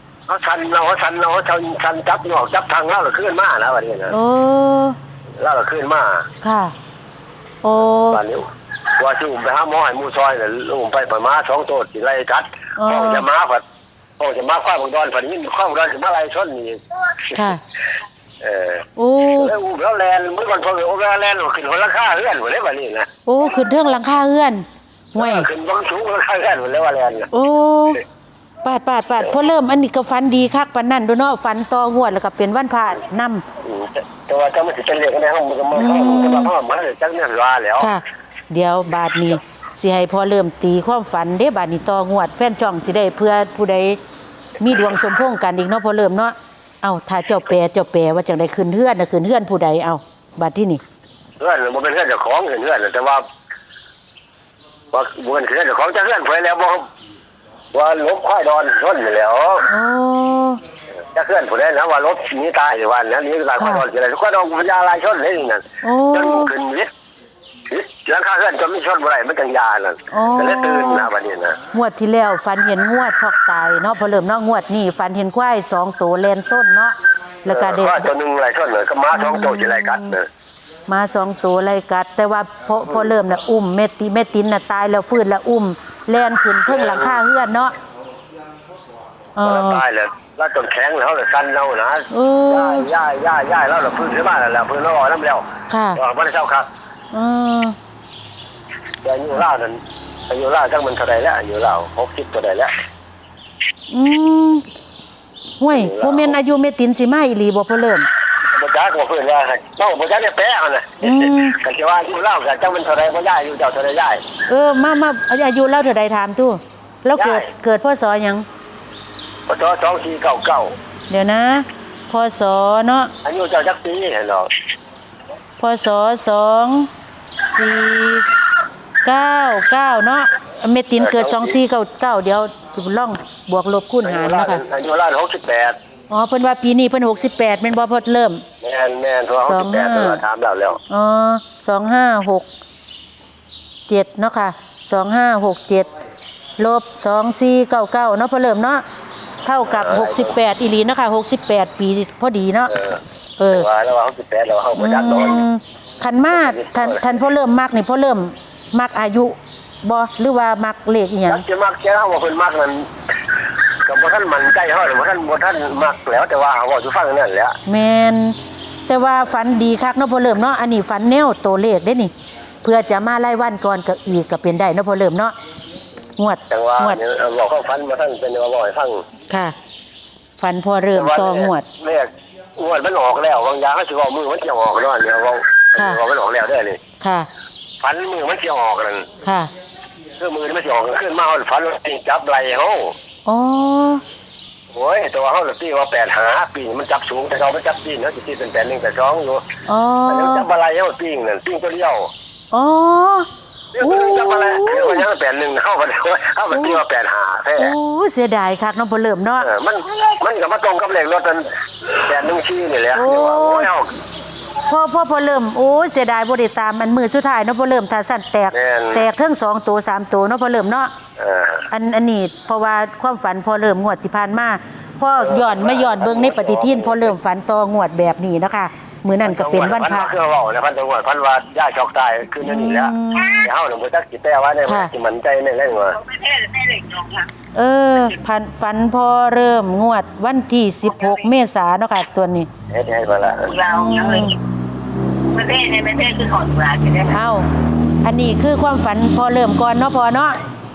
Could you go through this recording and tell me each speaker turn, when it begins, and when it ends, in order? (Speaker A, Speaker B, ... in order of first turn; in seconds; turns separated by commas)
Speaker A: 0.3-4.1, Speaker B: 4.1-5.0, Speaker A: 5.4-6.3, Speaker B: 6.4-6.7, Speaker B: 7.6-8.2, Speaker A: 8.1-8.4, Speaker A: 9.0-13.6, Speaker B: 12.8-13.3, Speaker A: 14.2-16.8, Speaker B: 17.3-17.6, Speaker A: 18.4-23.1, Speaker B: 19.0-19.5, Speaker B: 23.3-25.5, Speaker A: 25.2-27.3, Speaker B: 27.3-28.0, Speaker B: 28.6-33.4, Speaker A: 33.6-37.9, Speaker B: 35.7-36.5, Speaker B: 37.8-44.0, Speaker B: 44.6-50.8, Speaker A: 51.4-53.2, Speaker A: 54.9-56.9, Speaker A: 57.7-59.7, Speaker B: 59.7-60.6, Speaker A: 61.1-66.9, Speaker B: 63.6-63.9, Speaker B: 65.8-66.5, Speaker A: 67.7-71.6, Speaker B: 70.1-71.1, Speaker B: 71.7-78.1, Speaker A: 77.5-80.3, Speaker B: 79.1-80.2, Speaker B: 80.9-87.8, Speaker A: 86.7-87.2, Speaker B: 89.4-89.8, Speaker A: 89.4-96.7, Speaker B: 92.1-92.9, Speaker B: 95.7-96.0, Speaker B: 97.1-97.8, Speaker A: 99.0-102.7, Speaker B: 103.9-104.6, Speaker B: 105.6-108.1, Speaker A: 105.7-106.4, Speaker A: 108.5-114.2, Speaker B: 111.0-111.6, Speaker B: 114.5-118.5, Speaker A: 117.2-117.5, Speaker A: 119.5-120.8, Speaker B: 121.1-123.1, Speaker A: 123.2-124.5, Speaker B: 125.6-126.9, Speaker B: 127.5-128.3, Speaker B: 129.0-134.6, Speaker A: 131.0-131.6, Speaker A: 134.0-135.8, Speaker B: 136.1-138.4, Speaker A: 138.6-140.8, Speaker B: 139.4-140.2, Speaker B: 140.9-142.5, Speaker B: 143.9-145.9, Speaker B: 146.6-148.8, Speaker B: 149.4-152.7, Speaker A: 149.7-150.3, Speaker A: 152.7-155.5, Speaker B: 153.4-153.7, Speaker B: 154.8-161.4, Speaker A: 156.3-157.1, Speaker A: 161.3-162.9, Speaker A: 163.8-167.6, Speaker B: 167.7-168.4, Speaker B: 168.9-172.1, Speaker B: 172.6-175.3, Speaker B: 176.2-177.0, Speaker A: 176.5-179.0, Speaker B: 179.3-179.6, Speaker B: 180.4-181.7, Speaker A: 180.9-186.8, Speaker B: 185.8-186.0, Speaker B: 187.0-187.3, Speaker A: 187.8-189.1, Speaker B: 189.2-189.5, Speaker A: 190.2-192.9, Speaker B: 193.3-194.0, Speaker A: 194.7-199.4, Speaker B: 199.7-200.5, Speaker A: 200.1-202.1, Speaker B: 202.5-203.3, Speaker A: 203.7-207.7, Speaker B: 203.8-205.1, Speaker B: 206.5-206.8, Speaker B: 207.6-209.5, Speaker A: 209.4-213.9, Speaker B: 212.9-213.7, Speaker B: 214.7-220.9, Speaker A: 218.5-219.1, Speaker A: 221.2-221.7, Speaker B: 221.7-230.1, Speaker A: 225.2-227.1, Speaker A: 229.2-236.0, Speaker B: 232.4-233.5, Speaker B: 234.7-234.9, Speaker C: 236.0-237.3, Speaker B: 237.6-242.5, Speaker C: 241.0-241.3, Speaker A: 242.7-243.6, Speaker C: 243.5-244.4, Speaker B: 243.7-244.4, Speaker C: 245.3-247.2, Speaker B: 247.1-247.5, Speaker B: 248.0-250.4